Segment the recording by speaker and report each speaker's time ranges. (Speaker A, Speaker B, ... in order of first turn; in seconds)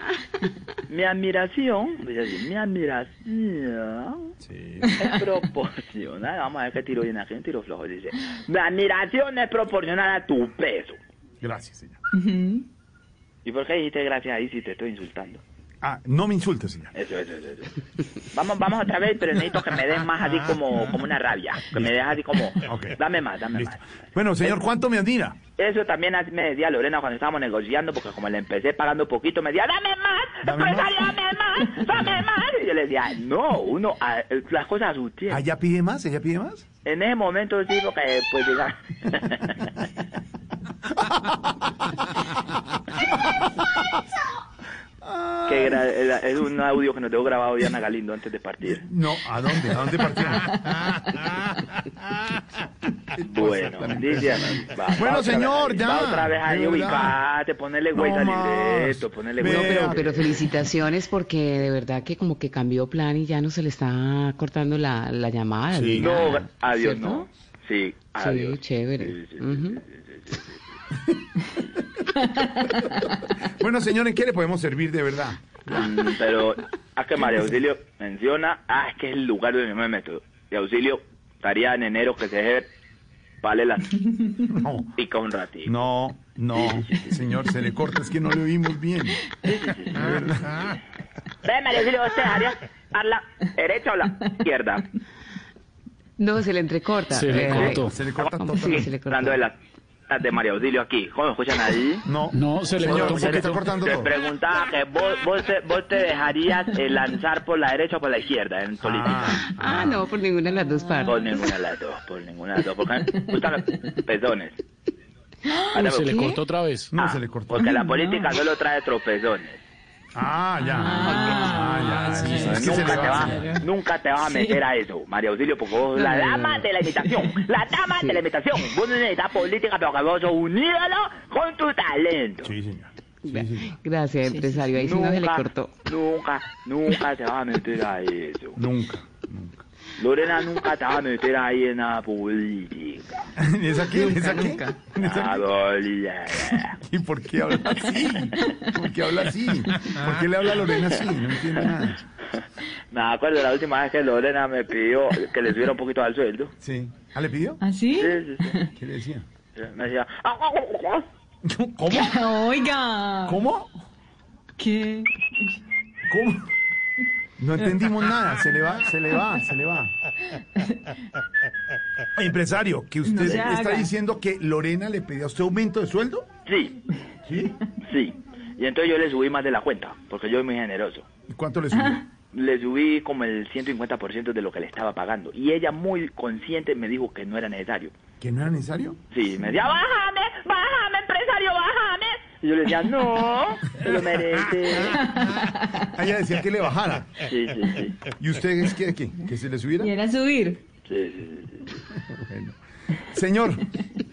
Speaker A: 0.9-4.3, 4.9-11.0, 13.4-15.4, 16.9-24.5, 25.6-35.4, 36.8-39.9, 45.5-48.8, 53.2-60.2, 66.0-70.6, 75.7-82.7, 83.4-84.4, 85.0-85.7, 86.5-87.2, 89.4-90.7, 91.4-94.9, 98.2-99.6, 100.1-102.0, 102.8-109.4, 111.0-114.6, 115.7-116.2, 117.0-119.6, 122.3-132.5, 134.8-138.6, 140.0-143.3, 145.0-146.8, 152.9-156.5, 157.9-158.6, 159.5-161.0, 176.4-176.8, 177.8-181.1, 182.3-187.9, 189.1-195.1, 197.2-197.9, 200.8-201.6
Speaker B: 4.4-5.0, 11.4-12.0, 15.8-16.9, 21.7-22.0, 22.6-23.0, 23.5-25.4, 30.4-31.1, 35.3-36.6, 41.0-41.4, 43.0-44.0, 45.0-45.8, 48.7-50.9, 53.1-57.2, 57.9-60.4, 65.7-66.3, 71.0-75.6, 84.5-84.9, 85.7-89.3, 89.9-90.7, 97.6-98.9, 102.0-104.1, 108.8-110.0, 116.9-117.7, 120.1-123.5, 132.4-133.7, 138.6-139.6, 143.4-145.4, 146.4-152.0, 156.6-157.6, 158.8-159.2, 161.4-162.2, 163.2-163.7, 166.1-166.4, 167.4-169.9, 172.1-176.3, 177.2-177.6, 181.3-182.0, 188.2-189.0, 195.8-197.2, 198.1-199.9, 201.9-203.8
Speaker C: 12.1-12.7, 117.5-118.3, 120.8-123.6, 134.3-134.5, 157.6-158.7, 161.9-163.4, 164.6-165.5, 173.0-173.9, 199.8-200.6
Speaker D: 59.4-67.2, 68.2-69.8, 96.2-99.4, 109.5-111.3, 116.0-116.4, 120.9-121.6, 125.9-126.7, 127.9-128.2, 133.2-135.7, 143.9-144.8
Speaker E: 97.1-98.0, 102.3-103.6, 115.7-116.9, 122.1-123.5